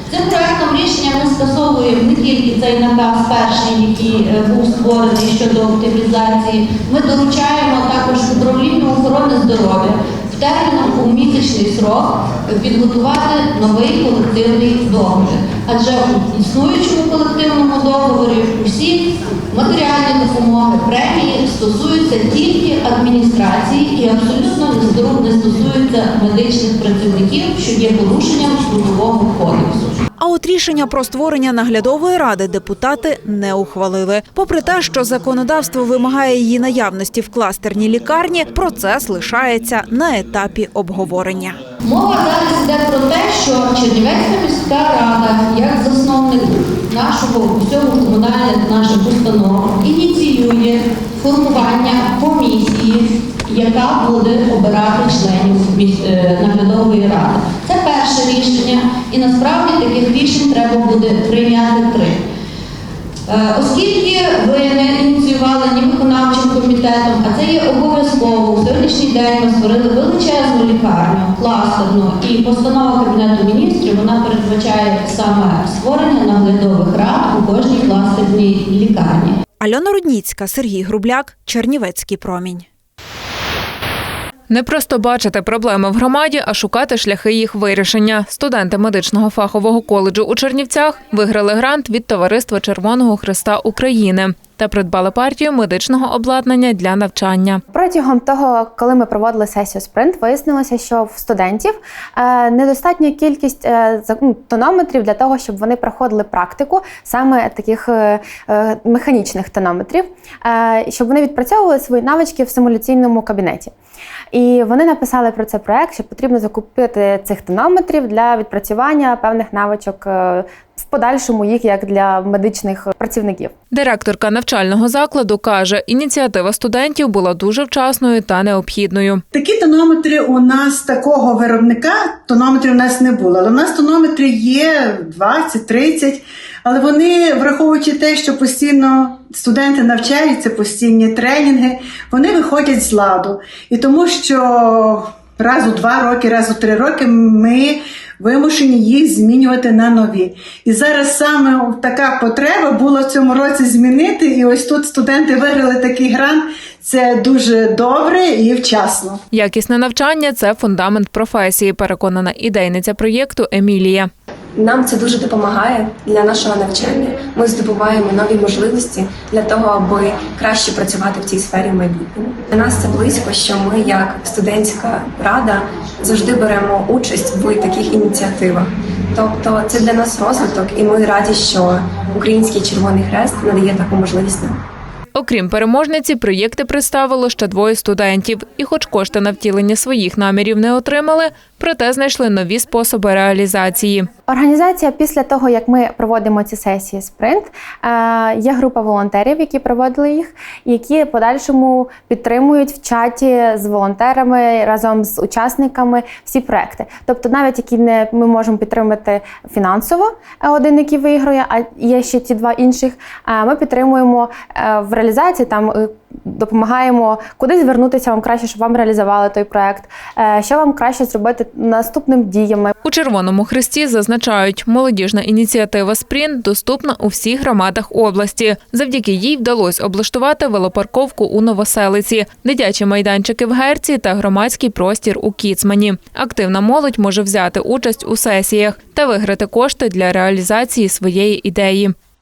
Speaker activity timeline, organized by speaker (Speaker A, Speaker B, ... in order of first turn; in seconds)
Speaker A: 0.1-29.9, 41.8-62.2, 63.3-79.4
Speaker B: 30.2-41.6, 79.6-82.7
Speaker C: 84.5-97.6, 123.7-129.2, 159.3-164.1, 185.2-194.1, 222.8-241.9
Speaker D: 97.7-113.7, 114.3-123.5, 194.3-222.7
Speaker E: 129.3-159.2
Speaker F: 164.6-184.6